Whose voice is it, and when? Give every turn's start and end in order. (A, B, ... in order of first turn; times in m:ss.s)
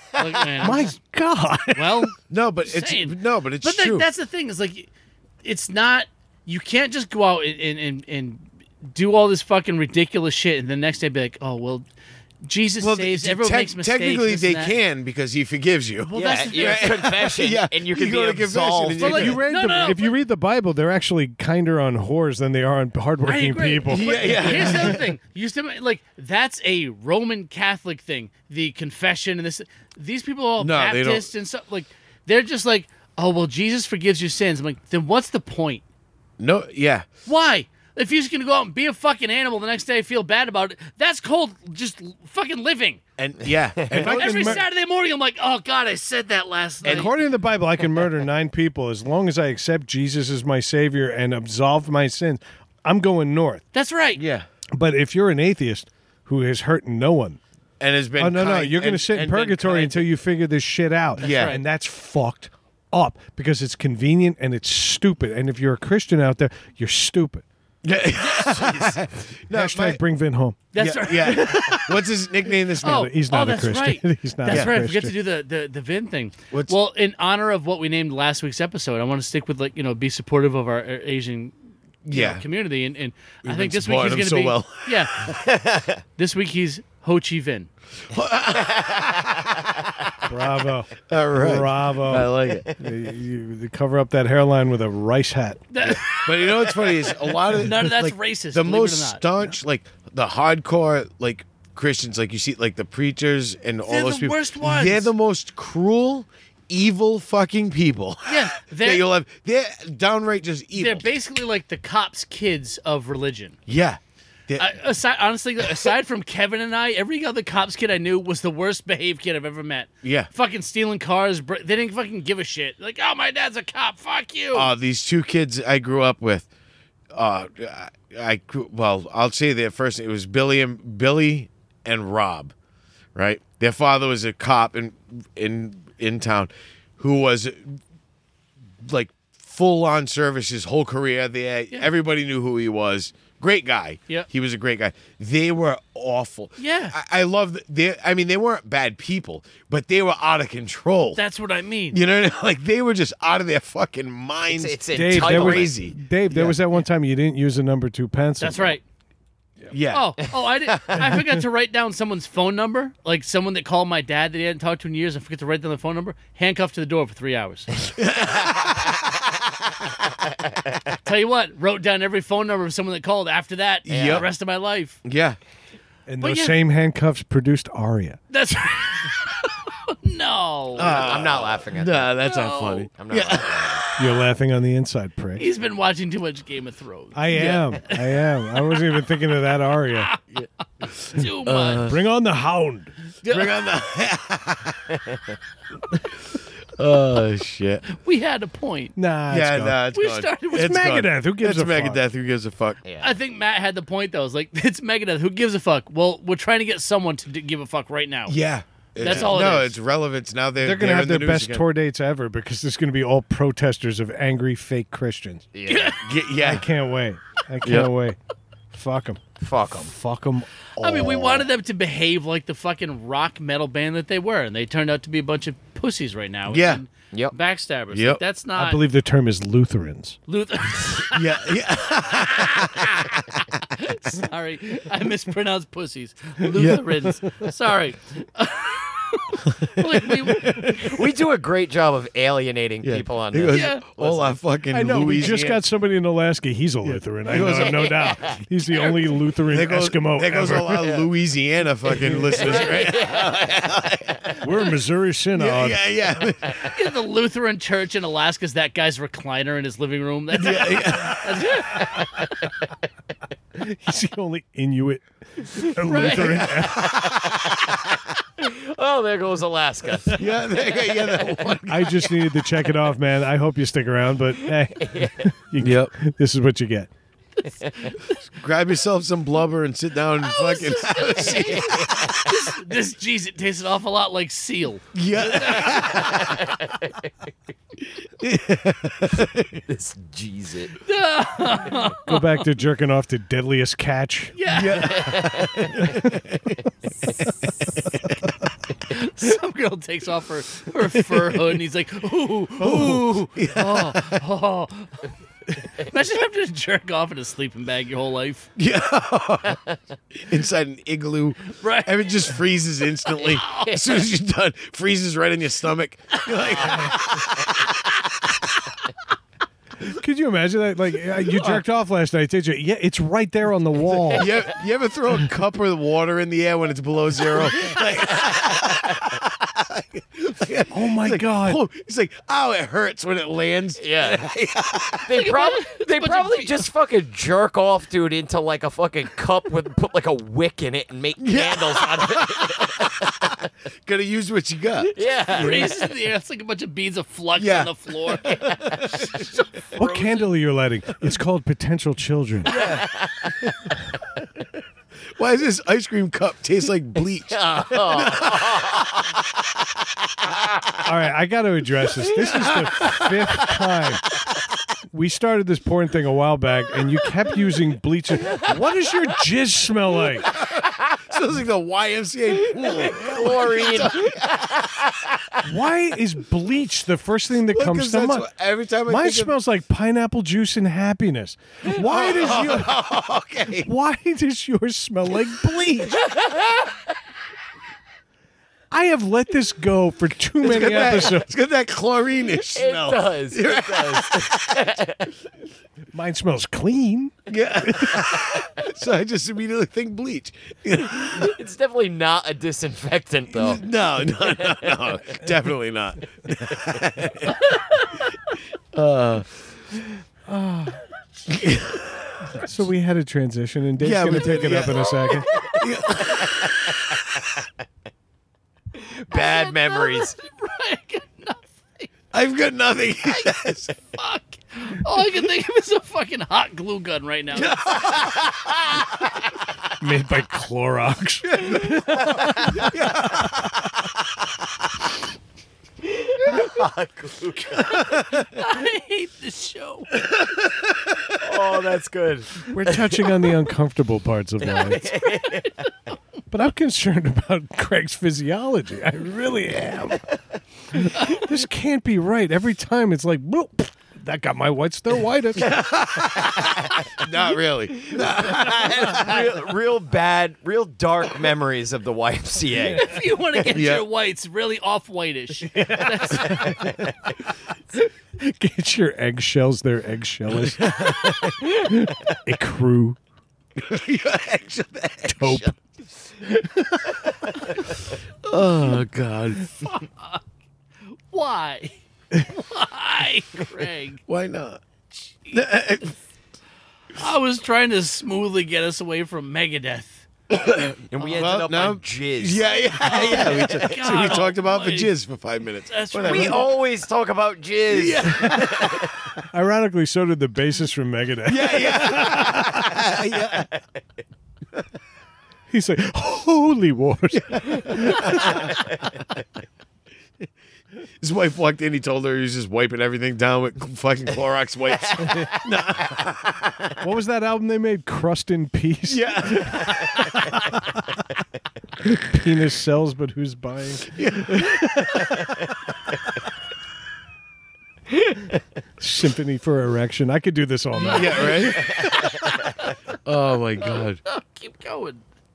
0:00.2-0:00.9 A
0:00.6-0:02.1 B
0:01.7-0:04.9 A
0:02.3-0:04.1 C
0:05.4-0:11.8 A
0:12.4-0:14.8 A
0:12.8-0:19.4 C
0:16.0-0:17.1 A
0:16.1-0:19.3 D
0:19.0-0:20.2 A
0:19.1-0:25.0 B
0:23.2-0:35.8 A
0:23.9-0:25.0 C
0:24.2-0:24.5 D
0:30.6-0:31.3 C
0:36.4-0:37.1 C
0:37.2-0:43.0 A
0:43.2-0:44.6 C
0:43.9-0:44.6 B
0:43.9-0:47.1 A
0:46.8-0:47.1 C
0:46.8-0:53.6 B
0:53.7-0:54.2 A
0:54.1-0:54.5 C
0:54.7-0:57.4 B
0:57.8-1:00.0 C
0:58.2-1:07.4 B
1:01.2-1:01.6 A
1:01.2-1:01.6 C
1:07.8-1:10.0 C
1:08.2-1:08.9 A
1:09.5-1:10.6 B
1:10.7-1:21.5 A
1:10.8-1:13.1 C
1:12.8-1:15.1 B
1:14.5-1:14.8 C
1:22.0-1:22.4 C
1:22.1-1:25.3 A
1:23.4-1:25.4 C
1:25.3-1:26.0 D
1:26.2-1:27.7 A
1:28.1-1:29.3 C
1:28.7-1:29.0 D
1:30.3-1:35.6 B
1:31.1-1:32.7 C
1:35.7-1:39.2 A
1:35.8-1:51.0 C
1:43.9-1:45.1 A
1:48.3-1:49.0 A
1:50.8-1:53.6 A
1:53.7-1:54.7 C
1:54.6-2:04.7 A
2:00.0-2:00.3 C
2:04.5-2:06.5 C
2:07.1-2:12.5 C
2:13.1-2:17.8 C
2:18.8-2:31.2 C
2:26.6-2:26.9 A
2:31.2-2:32.0 A
2:31.9-2:36.6 C
2:34.5-2:35.7 D
2:34.9-2:38.8 B
2:38.4-2:38.8 A
2:39.7-2:40.1 C
2:39.9-2:47.7 A
2:41.1-2:41.4 B
2:48.0-2:49.0 C
2:51.0-2:55.0 A
2:53.9-2:54.2 D
2:53.9-2:54.3 C
2:55.0-2:55.4 C
2:56.1-2:58.2 B
2:56.2-2:56.6 A
2:58.3-3:01.1 A
3:00.7-3:04.1 C
3:00.8-3:02.1 D
3:02.2-3:02.9 A
3:03.0-3:03.8 D
3:04.0-3:05.4 B
3:05.4-3:07.2 A
3:07.1-3:10.1 B
3:07.3-3:07.8 C
3:07.9-3:08.2 A
3:09.9-3:10.2 A
3:10.3-3:12.0 C
3:11.0-3:11.9 A
3:11.8-3:12.9 B
3:13.2-3:13.6 A
3:13.3-3:15.2 C
3:16.7-3:17.8 C
3:17.9-3:18.9 A
3:19.0-3:19.8 B
3:19.3-3:22.8 C
3:19.9-3:20.8 A
3:20.5-3:22.0 B
3:22.8-3:23.1 D
3:23.0-3:28.4 A
3:28.3-3:31.6 C
3:29.0-3:29.8 A
3:30.6-3:35.4 B
3:35.5-3:36.0 D
3:35.7-3:36.1 A
3:36.0-3:36.7 C
3:36.4-3:38.2 B
3:37.6-3:37.9 C
3:38.7-3:39.2 B
3:39.4-3:39.9 D
3:39.9-3:41.4 B
3:40.8-3:48.8 A
3:46.5-3:46.8 C
3:47.9-3:48.2 C
3:48.6-3:50.2 B
3:50.3-3:51.6 A
3:51.1-3:53.4 C
3:52.1-3:53.1 A
3:53.7-4:00.8 A
3:56.5-3:56.8 C
3:59.4-4:01.0 C
4:00.7-4:04.4 D
4:02.8-4:05.6 C
4:03.5-4:03.8 A
4:04.7-4:10.9 B
4:06.8-4:08.1 C
4:07.8-4:08.4 D
4:09.5-4:14.3 C
4:11.9-4:14.4 D
4:14.4-4:15.8 B
4:15.3-4:16.7 C
4:16.6-4:22.5 A
4:20.3-4:21.8 C
4:23.5-4:27.2 B
4:25.8-4:26.7 A
4:26.1-4:27.2 C
4:26.8-4:27.9 D
4:28.4-4:31.6 D
4:30.1-4:32.1 C
4:31.7-4:36.9 B
4:34.8-4:35.3 D
4:35.6-4:35.9 C
4:37.4-4:37.9 D
4:38.3-4:42.3 C
4:40.2-4:46.4 A
4:41.3-4:42.1 D
4:44.9-4:46.5 C
4:45.8-4:46.6 D
4:48.2-4:49.6 C
4:49.7-4:50.7 D
4:50.8-4:52.4 A
4:52.0-4:54.4 B
4:54.4-4:55.5 A
4:54.5-4:56.6 C
4:54.9-4:55.8 D
4:55.8-4:56.1 B
4:58.9-5:08.5 A
5:01.0-5:01.5 C
5:02.6-5:03.0 B
5:02.6-5:04.2 C
5:08.6-5:09.6 C
5:10.1-5:17.9 C
5:11.6-5:12.4 A
5:13.1-5:14.1 A
5:16.4-5:16.9 A
5:19.8-5:24.3 B
5:24.0-5:35.1 C
5:30.7-5:31.6 B
5:33.8-5:34.3 D
5:35.0-5:43.1 D
5:35.1-5:36.6 A
5:41.2-5:42.5 C
5:43.8-5:45.7 C
5:44.8-5:45.8 D
5:45.3-5:50.3 A
5:47.4-5:47.7 C
5:48.3-5:48.9 D
5:48.7-5:49.2 C
5:49.8-5:52.6 B
5:52.5-5:53.3 D
5:55.2-5:59.0 C
5:57.3-5:59.0 D
6:00.8-6:04.0 B
6:02.2-6:03.5 C
6:04.9-6:10.3 B
6:10.6-6:14.5 C
6:12.5-6:15.1 D
6:15.4-6:18.3 B
6:17.5-6:19.3 C
6:18.9-6:26.0 B
6:21.6-6:23.7 C
6:28.7-6:31.3 B
6:30.4-6:34.6 C
6:32.5-6:35.1 D
6:35.9-6:38.2 B
6:37.3-6:41.3 C
6:40.9-6:43.6 D
6:43.3-6:47.5 C
6:48.7-6:49.3 C
6:50.3-6:50.8 B
6:51.3-6:52.3 C
6:52.3-6:55.3 B
6:53.8-6:57.2 C
6:55.5-6:56.5 D
6:58.8-7:00.2 D
6:59.1-7:01.9 A
7:02.1-7:03.7 C
7:03.0-7:07.7 A
7:07.3-7:08.4 C
7:09.8-7:12.9 B
7:11.3-7:11.7 C
7:12.2-7:12.7 D
7:12.5-7:13.5 C
7:16.0-7:17.8 D
7:17.5-7:18.2 C
7:17.8-7:20.0 A
7:21.2-7:22.9 D
7:22.5-7:24.8 B
7:24.5-7:25.5 D
7:24.6-7:25.5 A
7:26.3-7:30.1 B
7:30.7-7:35.6 B
7:35.4-7:39.4 C
7:38.0-7:42.9 D
7:42.5-7:46.9 A
7:43.5-7:43.8 C
7:45.6-7:46.5 B
7:48.2-7:53.0 B
7:50.4-7:51.4 C
7:53.6-7:55.5 C
7:55.0-7:55.5 B
7:58.2-7:59.8 C
7:59.6-8:00.2 A
8:01.1-8:04.0 A
8:04.1-8:04.6 C
8:05.3-8:05.9 C
8:07.0-8:10.0 A
8:10.3-8:16.5 C
8:10.9-8:13.7 D
8:12.8-8:14.9 A
8:15.6-8:16.5 A
8:16.0-8:18.7 D
8:17.7-8:19.2 C
8:19.3-8:22.8 B
8:21.2-8:23.6 C
8:25.5-8:28.5 B
8:27.1-8:28.7 C
8:31.0-8:36.5 C
8:35.0-8:35.3 B
8:36.8-8:40.8 B
8:38.9-8:40.3 C
8:41.8-8:45.4 B
8:43.9-8:45.2 C
8:48.8-8:51.6 B
8:50.8-8:52.7 A
8:50.9-8:52.0 C
8:53.0-8:54.0 C
8:53.6-8:55.0 A